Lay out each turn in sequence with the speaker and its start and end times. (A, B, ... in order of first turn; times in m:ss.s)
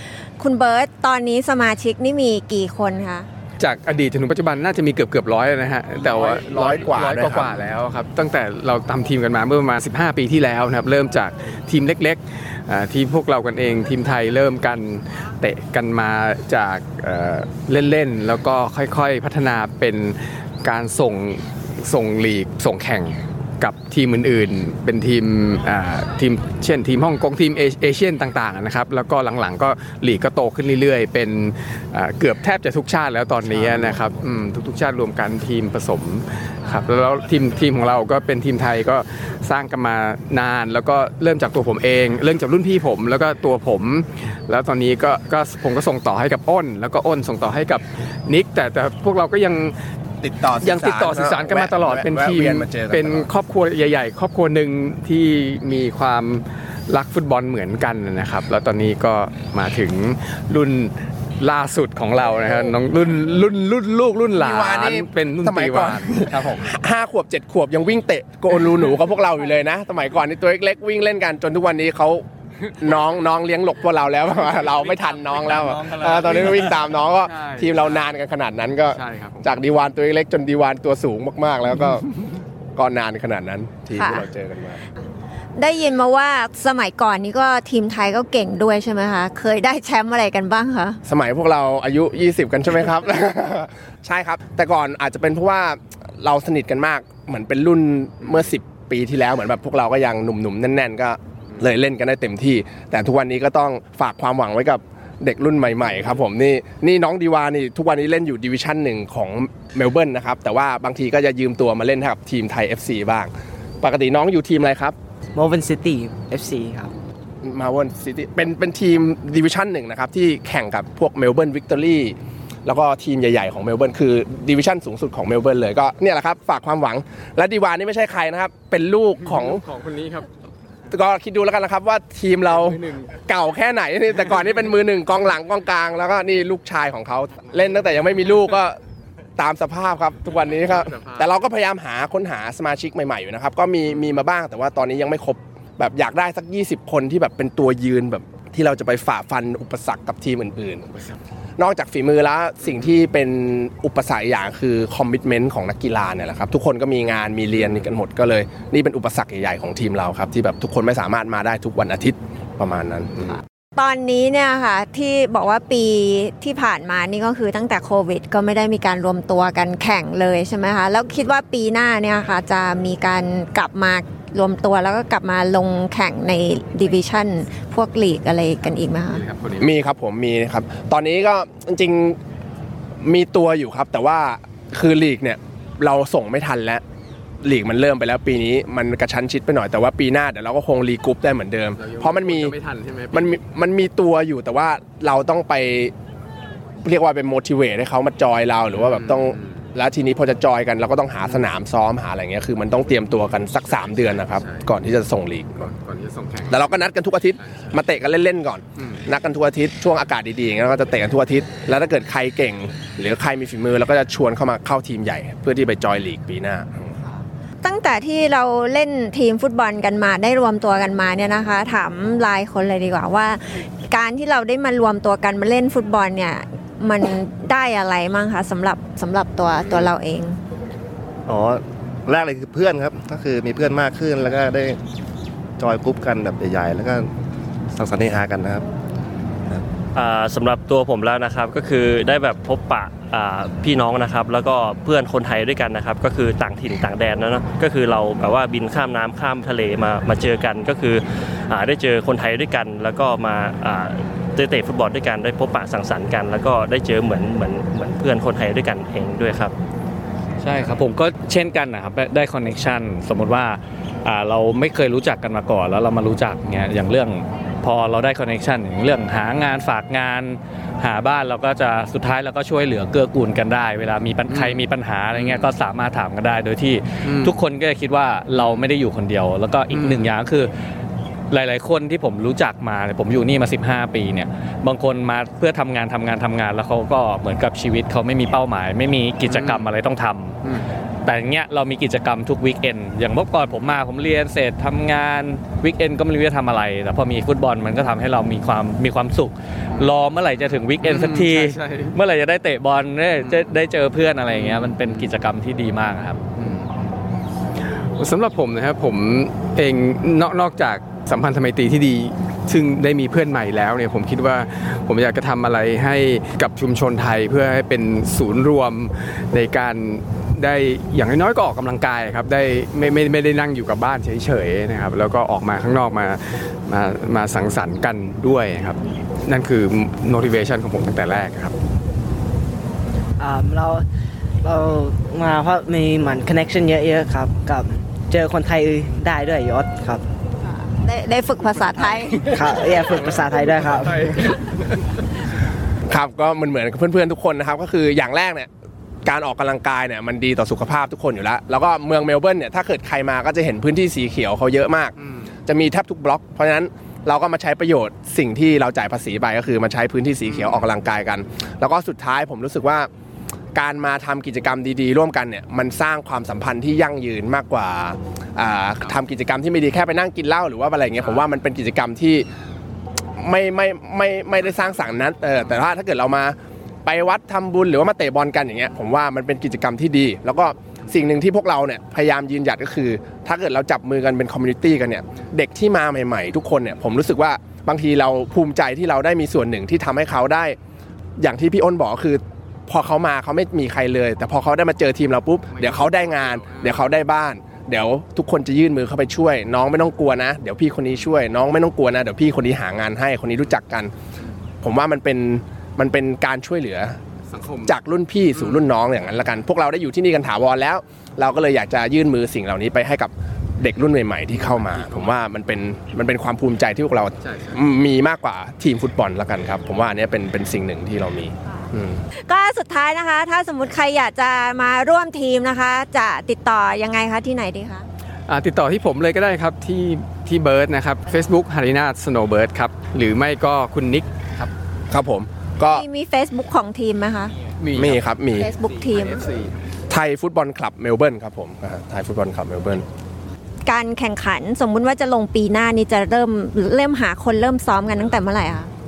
0:00.4-0:03.3 A
0:03.6-0:49.7 B
0:06.0-0:07.6 C
0:33.6-0:34.0 C
0:50.2-0:53.3 C
0:50.6-1:06.6 B
1:04.3-1:12.2 C
1:12.8-1:22.1 C
1:14.8-1:18.0 B
1:18.9-1:19.5 B
1:22.8-1:24.8 C
1:24.0-1:24.3 A
1:25.6-1:31.0 A
1:31.0-1:53.3 C
1:53.8-1:54.9 C
1:55.3-1:56.9 D
1:57.4-2:09.6 C
2:09.2-2:10.3 B
2:10.9-2:18.8 C
2:12.4-2:13.1 B
2:19.4-2:30.9 C
2:20.8-2:21.2 B
2:31.6-2:43.4 C
2:43.8-2:59.2 A
2:59.0-2:59.7 B
2:59.6-3:02.2 C
3:03.0-3:06.8 C
3:07.4-3:12.5 C
3:11.8-3:13.4 B
3:13.1-3:15.9 C
3:16.8-3:25.7 C
3:18.8-3:19.6 B
3:23.2-3:24.7 B
3:25.6-3:26.6 B
3:26.5-3:37.0 C
3:27.5-3:27.7 B
3:37.6-3:50.4 A
3:49.6-3:49.9 E
3:51.3-3:54.8 E
3:55.6-3:57.1 E
3:57.7-3:58.6 E
3:59.9-4:19.5 F
4:20.4-4:40.5 G
4:34.3-4:35.5 B
4:37.0-4:37.4 B
4:39.7-4:40.1 B
4:41.3-4:50.4 G
4:49.3-4:49.7 B
4:51.0-5:06.2 G
5:00.4-5:01.9 B
5:03.2-5:03.6 B
5:04.3-5:05.1 B
5:06.4-5:06.7 B
5:08.0-5:31.5 B
5:33.2-5:33.8 D
5:34.4-5:40.0 D
5:40.6-5:42.3 A
5:42.3-5:44.3 D
5:45.9-5:48.5 C
5:49.0-5:54.9 C
5:55.4-6:02.9 C
6:00.3-6:00.6 B
6:03.5-6:12.3 C
6:13.2-6:30.6 C
6:31.2-6:43.9 C
6:35.5-6:37.0 B
6:44.6-6:47.0 C
6:47.3-6:47.7 B
6:47.6-7:02.0 C
6:48.3-6:48.6 B
6:54.3-6:55.2 B
6:57.2-6:57.6 B
7:02.3-7:07.8 A
7:08.3-7:14.5 B
7:14.9-7:15.8 C
7:15.7-7:17.3 A
7:17.6-7:18.0 B
7:17.8-7:18.5 C
7:18.3-7:19.2 A
7:18.8-7:19.5 B
7:19.9-7:22.8 C
7:23.6-7:28.7 A